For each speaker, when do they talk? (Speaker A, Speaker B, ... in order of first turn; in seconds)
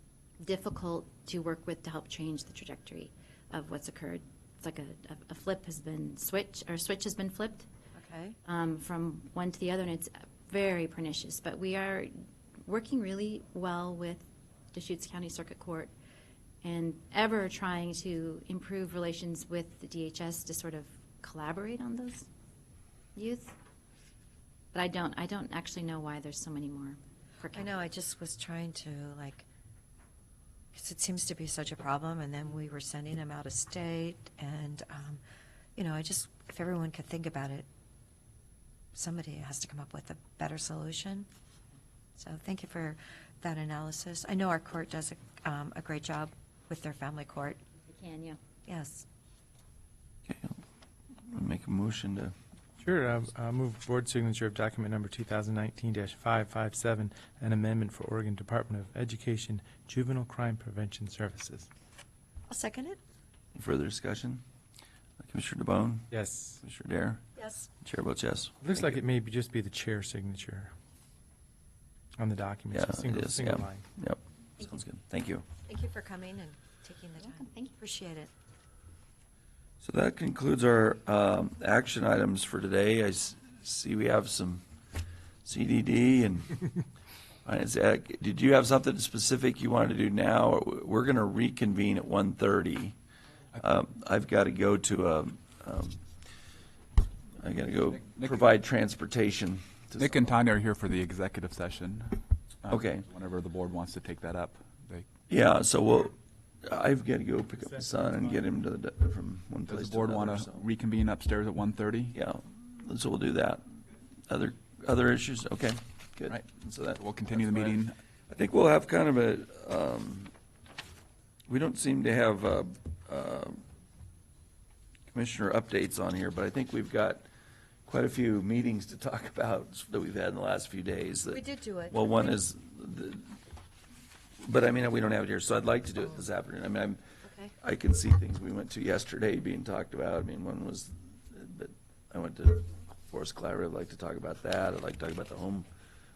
Speaker A: 0.4-7.7, 8.5-12.1, 12.7-15.9, 16.6-22.3, 23.2-23.6, 24.7-27.8, 47.9-48.4, 77.2-77.8
Speaker B: 8.0-8.4, 27.5-29.5, 30.7-35.2, 35.8-37.7, 38.9-41.3, 42.2-47.6, 48.7-49.1, 62.5-63.0, 67.4-67.7, 75.7-78.3, 131.3-132.3, 137.2-137.5
Speaker C: 50.3-50.6, 51.3-52.3, 63.5-64.4, 65.2-67.2, 67.8-69.0, 72.7-75.5, 79.8-84.6, 85.5-86.6, 87.5-93.0, 93.6-96.0, 97.4-100.3, 102.7-103.1, 105.3-110.7, 112.1-113.7, 114.3-120.3, 121.5-123.6, 125.1-127.2, 127.9-133.4, 134.4-137.0, 137.6-145.7
Speaker D: 52.8-61.7, 66.1-66.6, 68.6-70.7, 72.2-73.9, 107.7-108.4
Speaker E: 98.0-98.5, 100.0-105.1, 109.7-112.2, 116.3-118.0